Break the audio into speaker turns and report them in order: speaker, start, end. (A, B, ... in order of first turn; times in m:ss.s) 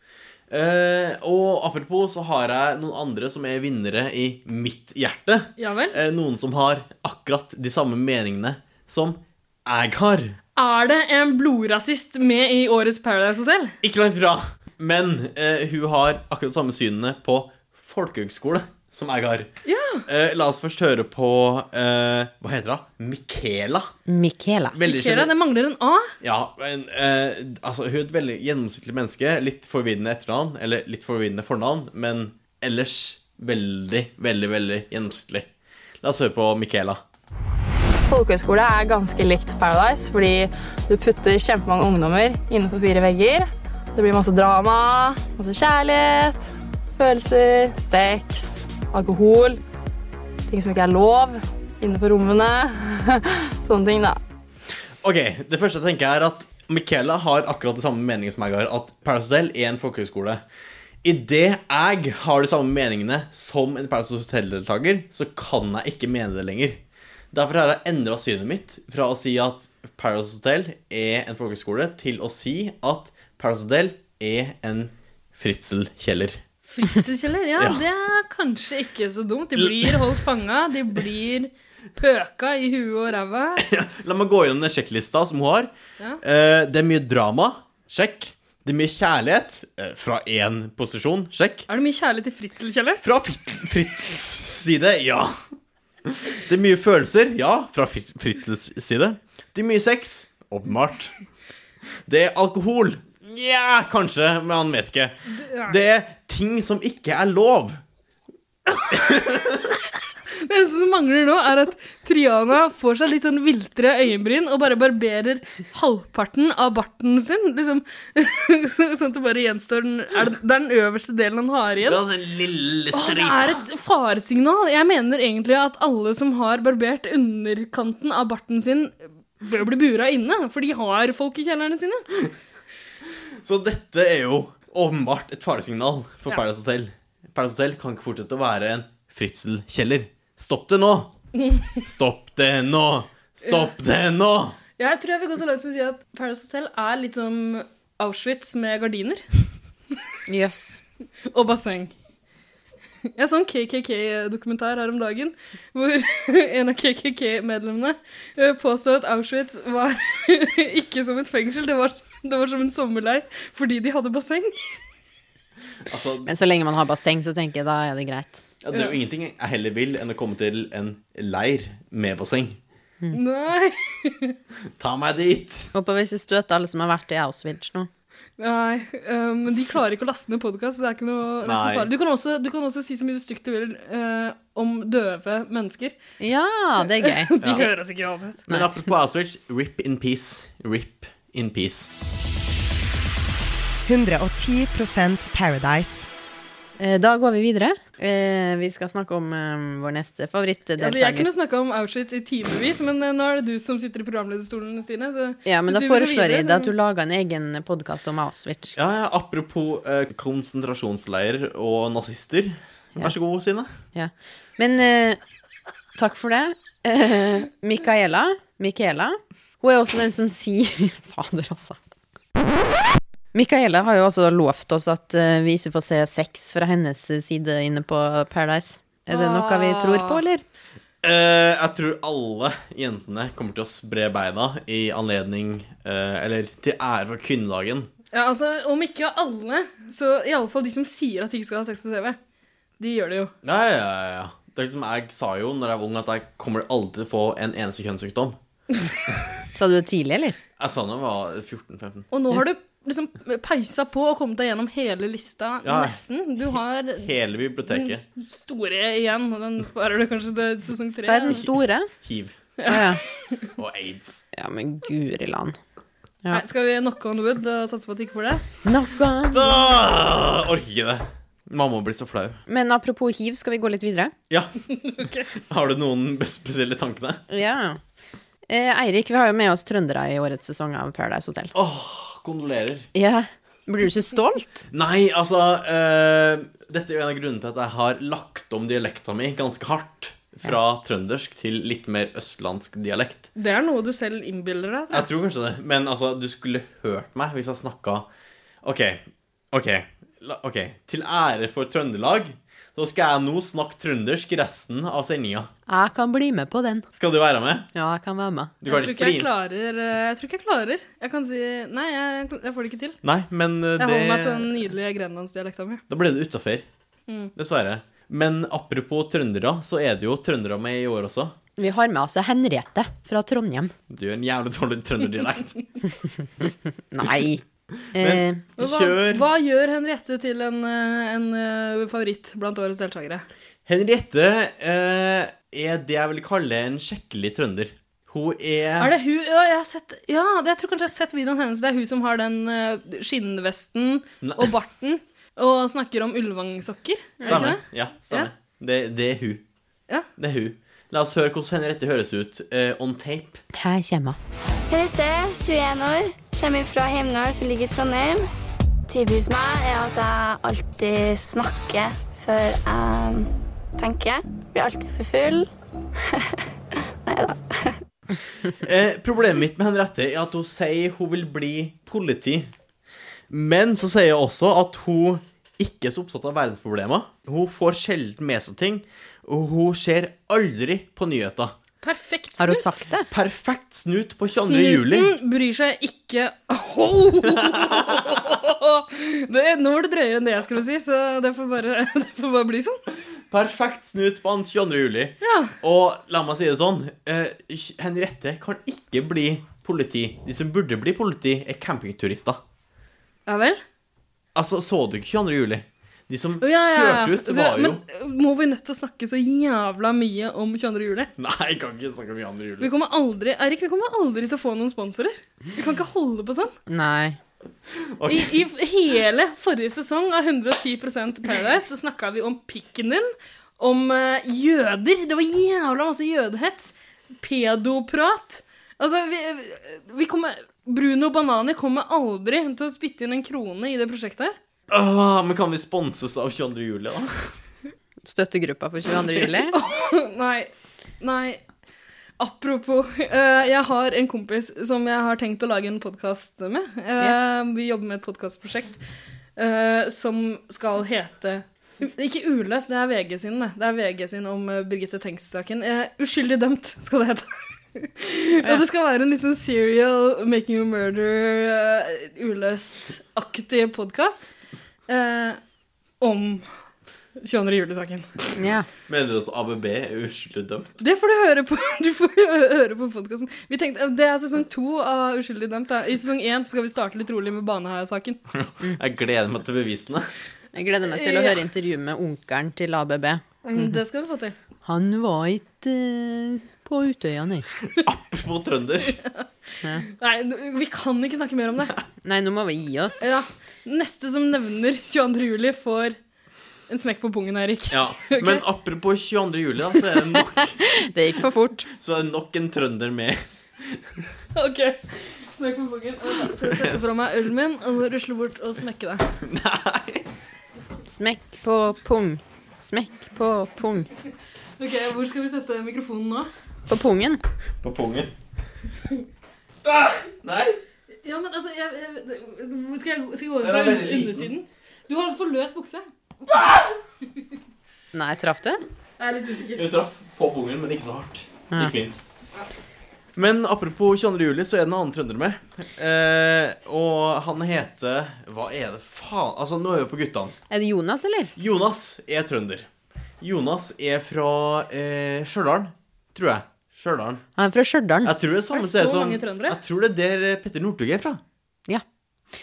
0:00.5-0:10.4 A
0:05.6-0:06.0 B
0:10.6-0:13.7 B
0:13.8-0:19.5 A
0:19.6-0:20.0 B
0:20.0-0:23.9 A
0:24.1-0:24.8 C
0:24.7-0:25.3 A
0:24.9-0:26.1 B
0:26.2-0:35.5 A
0:36.0-0:37.0 A
0:38.0-0:49.6 D
0:50.5-0:54.2 D
0:55.0-1:00.4 A
1:01.0-1:06.8 A
1:07.3-1:16.4 A
1:16.7-1:23.6 B
1:19.6-1:20.0 A
1:23.6-1:25.7 A
1:26.2-1:31.7 A
1:31.7-1:33.0 B
1:33.0-1:35.4 A
1:36.1-1:41.1 A
1:42.1-1:47.8 A
1:45.3-1:45.8 B
1:48.9-1:49.5 A
1:50.4-2:02.0 B
2:01.8-2:03.6 A
2:02.9-2:12.1 B
2:13.4-2:21.1 A
2:21.4-2:21.8 B
2:21.8-2:24.6 A
2:24.8-2:29.2 B
2:30.3-2:30.8 C
2:31.3-2:31.9 B
2:33.2-2:44.8 B
2:45.9-2:46.3 A
2:46.2-2:48.4 C
2:48.6-2:52.6 A
2:53.1-2:54.4 B
2:54.8-2:55.7 A
2:55.7-2:57.9 C
2:58.4-3:05.9 B
3:01.4-3:01.9 A
3:06.2-3:07.7 C
3:07.0-3:08.4 B
3:08.5-3:11.9 A
3:13.9-3:15.9 E
3:16.8-3:21.3 C
3:20.8-3:26.7 B
3:25.4-3:28.7 C
3:28.8-3:33.7 A
3:33.9-3:35.2 C
3:35.9-3:41.8 C
3:43.3-3:50.4 C
3:49.1-3:50.2 B
3:51.0-3:57.9 A
3:58.1-4:02.2 B
4:02.8-4:03.3 B
4:03.4-4:08.4 A
4:09.5-4:10.4 C
4:10.6-4:12.1 A
4:12.1-4:17.1 B
4:15.6-4:16.0 A
4:17.0-4:18.0 A
4:17.7-4:21.4 B
4:21.0-4:21.9 C
4:22.0-4:22.4 A
4:22.6-4:23.4 B
4:22.7-4:23.0 C
4:23.6-4:24.2 A
4:24.3-4:25.6 C
4:26.3-4:28.4 B
4:28.6-4:29.7 C
4:29.3-4:32.4 A
4:32.5-4:34.1 C
4:34.8-4:35.3 B
4:35.4-4:37.2 A
4:37.3-4:37.8 C
4:38.5-4:41.5 C
4:41.5-4:42.9 A
4:42.9-4:44.6 C
4:44.7-4:53.3 A
4:53.4-4:55.1 B
4:54.9-4:58.0 A
4:58.6-5:05.5 A
5:05.7-5:06.9 C
5:06.9-5:07.7 A
5:07.7-5:08.5 C
5:08.6-5:09.3 A
5:08.7-5:13.0 B
5:13.0-5:14.5 A
5:13.8-5:15.8 B
5:15.9-5:16.6 A
5:17.4-5:21.4 A
5:21.6-5:23.7 C
5:23.9-5:25.6 A
5:26.4-5:28.4 C
5:27.9-5:29.2 A
5:28.6-5:33.2 B
5:33.7-5:38.9 A
5:38.8-5:48.3 B
5:44.2-5:44.5 A
5:47.2-5:47.5 C
5:47.2-5:49.4 A
5:50.2-5:53.4 A
5:53.5-5:54.2 C
5:54.7-5:58.2 F
5:58.9-6:05.5 F
6:07.0-6:07.7 F
6:08.6-6:12.5 A
6:13.3-6:21.5 A
6:21.8-6:22.8 B
6:22.4-6:23.1 C
6:23.1-6:25.1 A
6:24.4-6:32.8 B
6:33.3-6:42.4 A
6:35.2-6:35.5 B
6:43.3-6:43.6 B
6:44.4-6:47.8 A
6:46.4-6:51.1 B
6:51.2-6:52.7 A
6:52.6-6:56.5 B
6:56.7-6:57.2 C
6:57.8-6:58.3 A
6:58.1-7:14.4 B
7:14.7-7:17.3 A
7:18.0-7:19.5 C
7:19.5-7:20.5 B
7:21.0-7:21.4 B
7:22.2-7:28.8 B
7:29.4-7:44.2 B
7:44.9-7:45.4 B
7:46.0-7:46.5 B
7:47.2-7:48.1 B
7:48.4-7:48.7 C
7:48.9-7:50.8 A
7:50.8-7:58.2 B
7:58.3-8:00.1 A
8:00.5-8:03.8 C
8:00.9-8:01.4 B
8:03.4-8:04.4 B
8:04.6-8:07.4 C
8:07.8-8:09.0 A
8:09.0-8:09.2 B
8:09.9-8:11.7 B
8:12.0-8:13.0 C
8:13.0-8:16.0 B
8:16.7-8:18.4 B
8:17.7-8:20.6 A
8:20.7-8:21.7 C
8:21.7-8:24.0 A
8:24.3-8:29.1 B
8:26.4-8:26.8 A
8:29.2-8:30.0 A
8:30.8-8:33.9 C
8:34.6-8:36.3 B
8:36.7-8:37.2 C
8:37.6-8:38.1 A
8:39.6-8:40.6 A
8:41.0-8:45.8 B
8:43.4-8:44.3 A
8:47.9-8:48.6 C
8:49.0-8:49.7 B
8:49.6-8:52.0 A
8:53.2-9:00.4 A
9:00.5-9:01.3 C
9:01.4-9:02.7 A
9:03.2-9:07.2 A
9:07.4-9:08.1 C
9:08.0-9:11.2 A
9:08.5-9:09.6 B